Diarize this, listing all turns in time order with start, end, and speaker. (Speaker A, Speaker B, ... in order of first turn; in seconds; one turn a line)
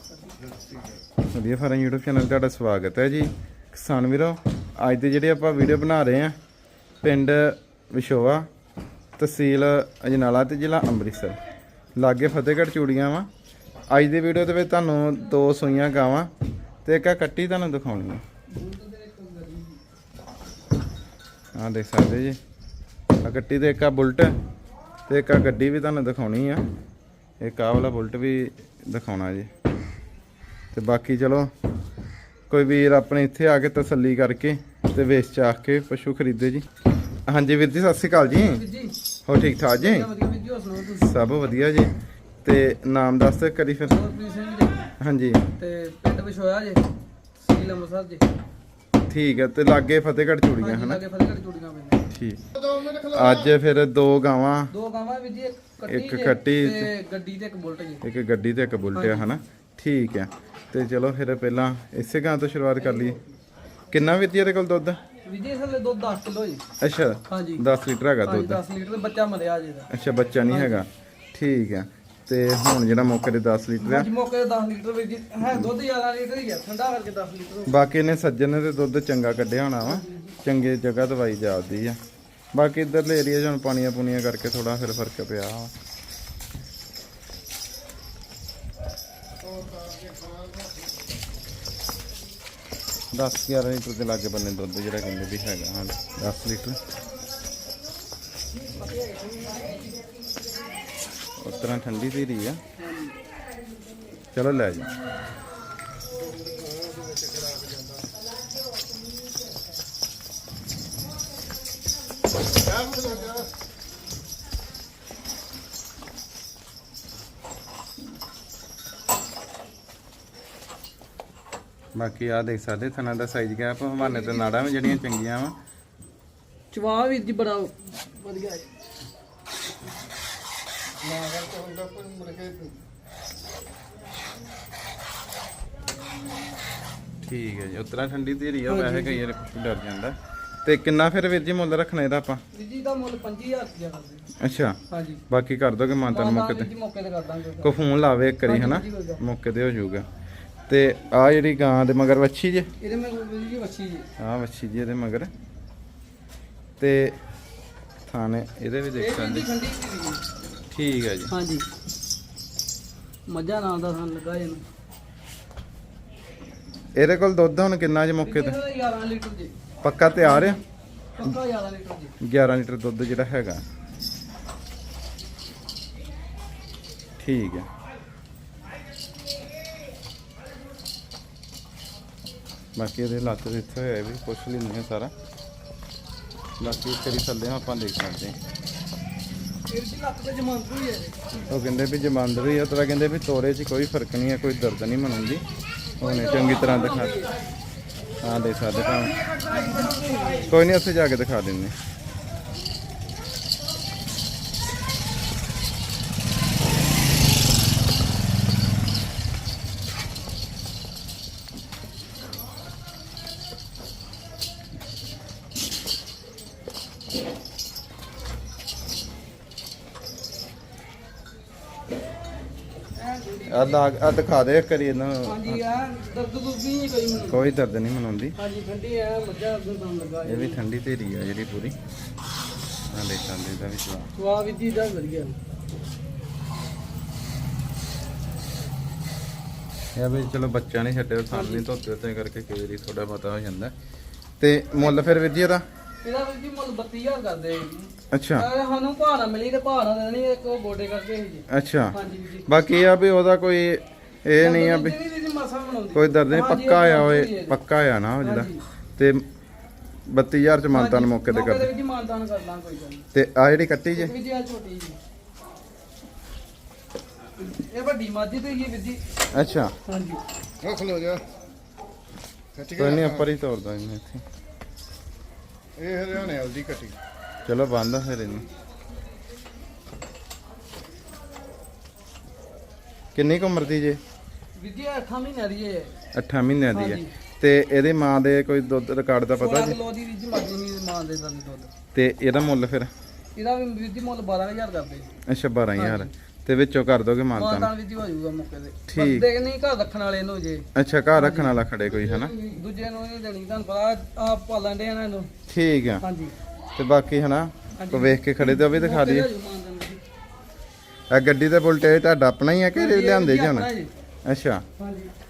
Speaker A: 1.3-6.3
Speaker A: 7.0-8.5
Speaker A: 9.2-11.4
Speaker A: 11.9-13.3
Speaker A: 13.9-16.3
Speaker A: 16.8-18.2
Speaker B: 18.5-19.8
Speaker A: 21.6-22.4
Speaker A: 23.2-24.4
Speaker A: 25.1-26.6
Speaker A: 27.4-29.5
Speaker A: 30.7-31.5
Speaker A: 32.5-36.6
Speaker A: 37.3-38.6
Speaker B: 38.2-39.0
Speaker A: 39.2-40.1
Speaker B: 39.7-41.1
Speaker A: 41.0-41.9
Speaker A: 42.4-44.0
Speaker B: 43.9-44.9
Speaker A: 45.0-45.4
Speaker B: 45.6-46.9
Speaker B: 47.4-48.2
Speaker A: 49.1-51.0
Speaker B: 50.6-52.1
Speaker A: 52.1-52.4
Speaker A: 52.9-54.7
Speaker B: 54.7-58.0
Speaker A: 55.9-56.9
Speaker A: 58.0-63.2
Speaker B: 58.9-59.3
Speaker B: 62.8-63.3
Speaker A: 63.9-65.0
Speaker B: 65.2-66.6
Speaker A: 66.8-68.6
Speaker B: 67.3-67.6
Speaker B: 68.2-69.9
Speaker A: 69.9-74.1
Speaker B: 70.5-70.8
Speaker B: 73.8-77.8
Speaker A: 77.7-82.0
Speaker B: 79.8-80.3
Speaker A: 82.5-85.7
Speaker C: 89.8-90.4
Speaker A: 93.1-96.8
Speaker B: 98.6-99.8
Speaker A: 101.4-102.6
Speaker B: 102.8-103.2
Speaker A: 104.3-104.9
Speaker A: 121.9-125.5
Speaker B: 124.0-124.9
Speaker B: 126.7-128.7
Speaker C: 131.1-132.8
Speaker A: 137.2-142.4
Speaker B: 138.7-139.2
Speaker B: 142.5-144.3
Speaker A: 144.4-146.7
Speaker B: 144.9-145.2
Speaker B: 146.1-147.7
Speaker A: 147.6-150.1
Speaker B: 148.4-149.2
Speaker A: 150.7-152.7
Speaker B: 152.8-154.1
Speaker A: 154.2-155.3
Speaker A: 156.8-157.2
Speaker A: 158.0-159.5
Speaker B: 159.0-160.2
Speaker A: 160.7-161.3
Speaker B: 161.3-161.7
Speaker B: 163.3-164.6
Speaker A: 166.9-168.6
Speaker B: 168.2-169.5
Speaker A: 169.8-170.6
Speaker B: 170.2-170.5
Speaker B: 171.2-172.2
Speaker A: 172.2-173.6
Speaker A: 177.2-177.7
Speaker A: 182.8-185.1
Speaker A: 186.6-188.4
Speaker B: 189.7-191.4
Speaker A: 191.5-195.4
Speaker A: 196.0-197.2
Speaker B: 196.0-197.4
Speaker A: 198.2-199.2
Speaker B: 198.9-200.5
Speaker A: 200.5-201.7
Speaker B: 222.9-223.9
Speaker A: 223.5-225.6
Speaker B: 225.3-227.5
Speaker A: 227.2-228.3
Speaker B: 228.3-230.6
Speaker A: 230.2-231.7
Speaker A: 232.9-234.1
Speaker B: 234.2-235.3
Speaker A: 239.9-243.7
Speaker B: 241.3-241.6
Speaker A: 244.4-245.6
Speaker B: 244.8-245.2
Speaker B: 246.0-252.5
Speaker A: 248.1-248.5
Speaker A: 251.5-255.0
Speaker B: 254.4-257.6
Speaker A: 255.9-259.2
Speaker B: 258.2-258.6
Speaker A: 260.1-261.7
Speaker B: 260.7-263.1
Speaker A: 263.1-264.1
Speaker B: 263.9-265.0
Speaker B: 267.4-269.0
Speaker A: 269.3-269.7
Speaker B: 269.8-270.2
Speaker C: 270.7-271.2
Speaker A: 272.7-274.2
Speaker C: 275.9-276.9
Speaker A: 277.4-278.4
Speaker A: 283.1-284.0
Speaker B: 284.6-285.9
Speaker A: 286.1-289.8
Speaker B: 286.7-287.1
Speaker B: 289.3-291.7
Speaker A: 291.9-292.9
Speaker B: 293.4-295.1
Speaker A: 295.2-297.7
Speaker B: 295.8-296.1
Speaker B: 297.4-305.3
Speaker A: 298.9-299.2
Speaker A: 300.7-302.3
Speaker A: 305.5-306.0
Speaker B: 306.0-306.3
Speaker A: 306.8-309.3
Speaker B: 307.8-310.0
Speaker A: 311.1-313.7
Speaker B: 312.7-313.9
Speaker A: 314.2-314.6
Speaker B: 314.8-315.1